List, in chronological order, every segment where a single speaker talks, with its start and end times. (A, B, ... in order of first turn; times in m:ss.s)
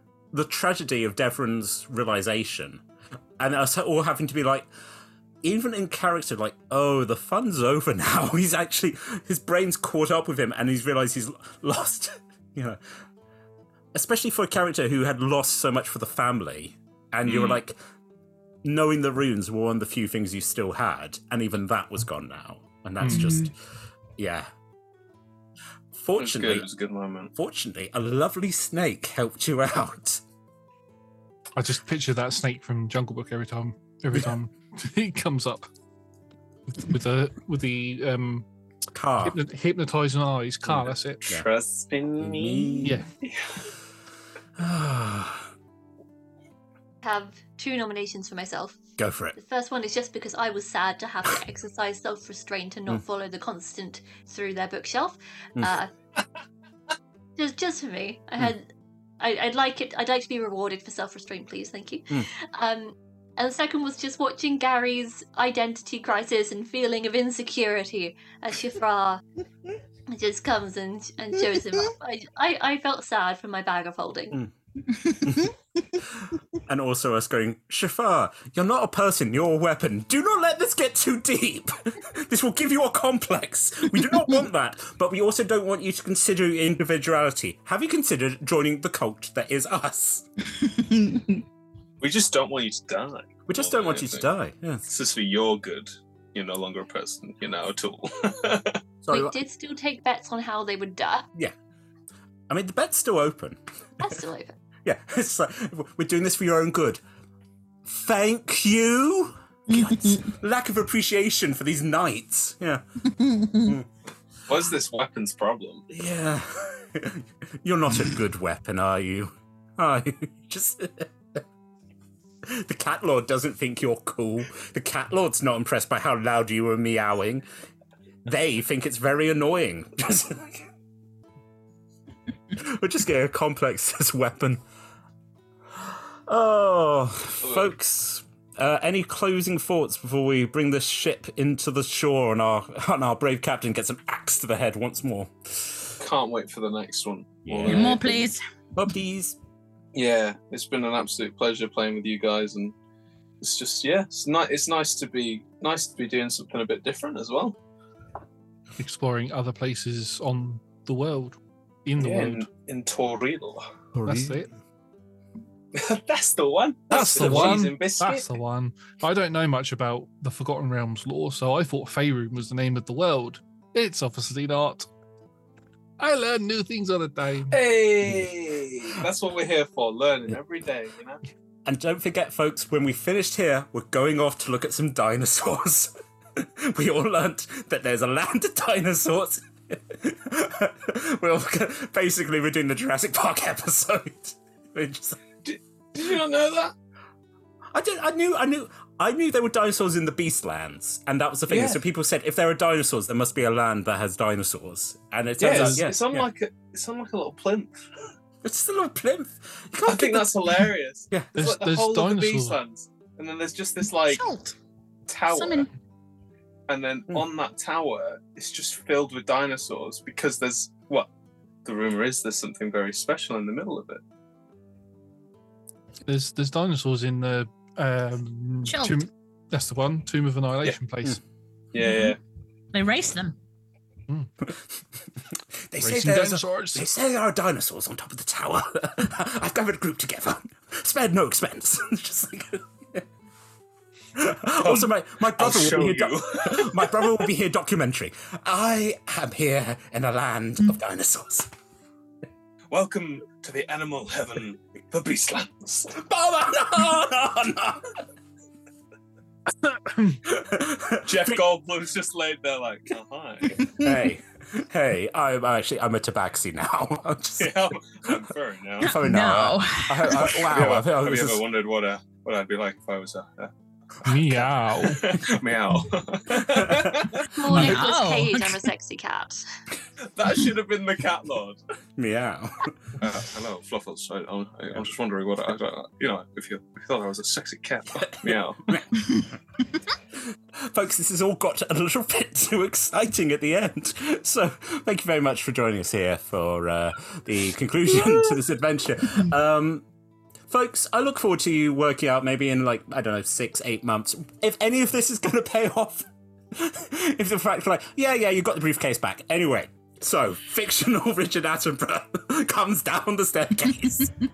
0:00.3-0:02.8 A
0:03.4-0:04.7 A
0:05.4-0:12.8 A
0:13.9-0:17.8 A
0:17.2-0:17.6 B
0:18.6-0:23.5 A
0:23.0-0:23.5 C
0:24.2-0:24.5 A
0:25.9-0:26.7 A
0:26.2-0:27.3 B
0:27.3-0:30.2 A
0:31.6-0:35.7 D
0:36.8-0:38.5 D
0:38.9-0:39.4 A
0:39.2-0:41.4 D
0:40.7-0:41.4 A
0:41.3-0:43.6 B
0:42.2-0:43.0 A
0:42.8-0:43.1 D
0:44.6-0:45.5 A
0:47.0-0:48.8 E
0:49.0-0:49.4 A
0:49.3-0:55.9 E
0:57.4-0:58.7 E
0:59.2-1:09.2 E
1:10.1-1:14.4 E
1:14.9-1:15.5 C
1:15.2-1:15.5 A
1:16.2-1:30.2 A
1:30.5-1:31.4 C
1:32.0-1:34.2 B
1:33.5-1:34.8 A
1:34.9-1:38.8 B
1:39.0-1:39.4 A
1:39.1-1:41.2 E
1:42.5-1:43.6 A
1:44.0-1:44.5 E
1:44.8-1:47.0 A
1:47.8-1:52.8 A
1:49.7-1:50.2 C
1:53.0-1:53.7 C
1:54.5-1:55.8 B
1:55.9-2:01.4 A
2:02.4-2:07.4 A
2:08.2-2:10.6 A
2:12.6-2:14.6 A
2:16.3-2:26.0 A
2:26.0-2:28.2 B
2:27.4-2:28.2 A
2:27.6-2:28.4 C
2:28.7-2:29.4 A
2:29.9-2:32.7 B
2:33.4-2:37.6 B
2:38.8-2:42.4 D
2:42.0-2:43.7 B
2:43.9-2:44.4 A
2:44.0-2:44.5 D
2:45.7-2:48.3 B
2:46.9-2:54.9 D
2:46.9-2:47.6 A
2:56.0-2:57.5 D
2:57.5-3:01.2 B
3:01.6-3:15.2 A
3:15.4-3:16.7 B
3:17.7-3:26.2 A
3:21.5-3:21.8 B
3:25.4-3:27.8 B
3:25.5-3:25.9 D
3:28.4-3:30.4 A
3:29.8-3:34.2 B
3:31.4-3:32.6 D
3:34.0-3:34.6 C
3:35.1-3:35.7 B
3:35.3-3:35.7 C
3:36.7-3:41.1 B
3:41.6-3:44.0 B
3:46.0-3:51.2 D
3:48.6-3:49.0 C
3:51.7-3:52.2 B
3:51.8-3:52.2 C
3:52.7-3:53.4 C
3:55.7-4:03.0 A
3:55.8-3:56.9 D
4:04.1-4:11.5 A
4:04.6-4:07.2 B
4:12.7-4:16.0 B
4:15.9-4:17.9 A
4:19.7-4:20.2 D
4:20.2-4:21.4 A
4:21.0-4:23.6 B
4:23.6-4:24.0 C
4:23.8-4:27.7 A
4:27.4-4:28.9 B
4:28.8-4:30.4 C
4:28.8-4:31.4 A
4:30.1-4:37.8 B
4:34.0-4:35.1 D
4:36.4-4:37.0 A
4:37.3-4:39.4 E
4:37.4-4:38.7 C
4:40.1-4:41.6 B
4:42.0-4:42.8 A
4:43.0-4:48.8 B
4:48.0-4:48.9 A
4:50.6-4:59.8 A
5:00.5-5:14.1 A